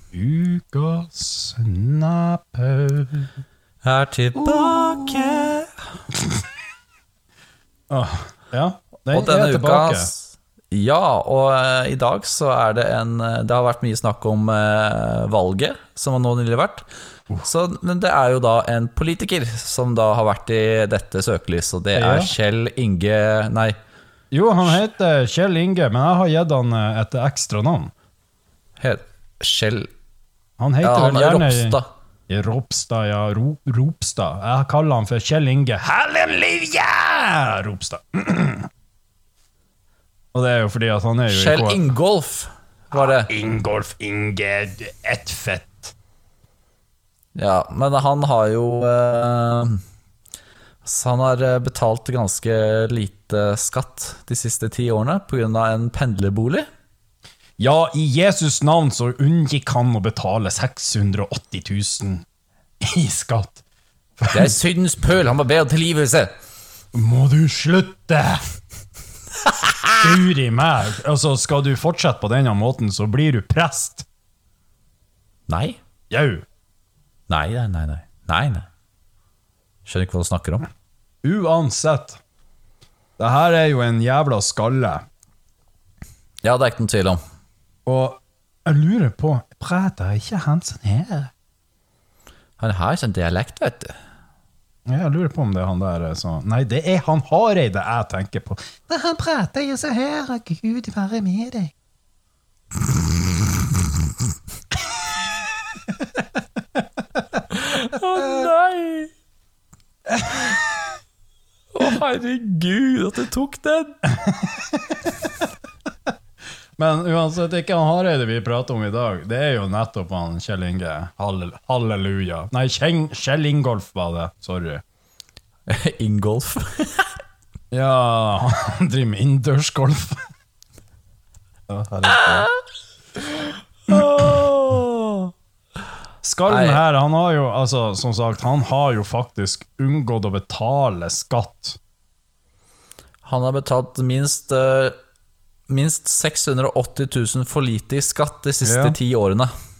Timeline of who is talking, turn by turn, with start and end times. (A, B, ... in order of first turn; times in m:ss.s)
0:00.1-0:03.3 A
0:03.8-0:05.7 B
0:04.4-0:05.5 A
0:06.1-0:06.4 A
0:07.9-0:10.1 A
0:09.1-0:16.8 B
0:17.4-0:23.8 B
0:21.9-0:22.3 A
0:24.3-0:27.9 A
0:28.8-0:29.9 B
0:30.6-0:31.8 A
0:30.8-0:31.9 B
0:32.3-0:38.7 A
0:40.3-0:41.8 A
0:41.3-0:43.3 B
0:42.9-0:45.9 A
0:47.4-0:49.8 B
0:50.8-0:56.7 B
0:57.6-1:02.2 A
1:02.8-1:03.6 A
1:04.2-1:04.5 A
1:04.3-1:06.3 B
1:06.9-1:08.4 A
1:10.0-1:14.0 A
1:15.5-1:15.8 B
1:16.1-1:16.4 A
1:17.3-1:18.7 B
1:19.8-1:20.7 B
1:21.2-1:22.2 A
1:23.2-1:25.0 A
1:26.4-1:27.2 B
1:27.8-1:31.3 A
1:32.6-1:33.9 B
1:34.8-1:41.7 A
1:45.9-1:46.2 A
1:47.5-1:49.1 B
1:48.2-1:48.5 A
1:50.1-1:50.6 A
1:51.7-1:54.0 B
1:54.1-1:55.2 A
1:56.8-2:04.8 A
2:05.7-2:07.1 B
2:07.7-2:10.2 A
2:11.7-2:12.5 A
2:13.9-2:15.3 B
2:16.2-2:21.8 A
2:16.5-2:16.8 B
2:23.2-2:25.0 B
2:25.7-2:29.5 B
2:28.6-2:29.0 A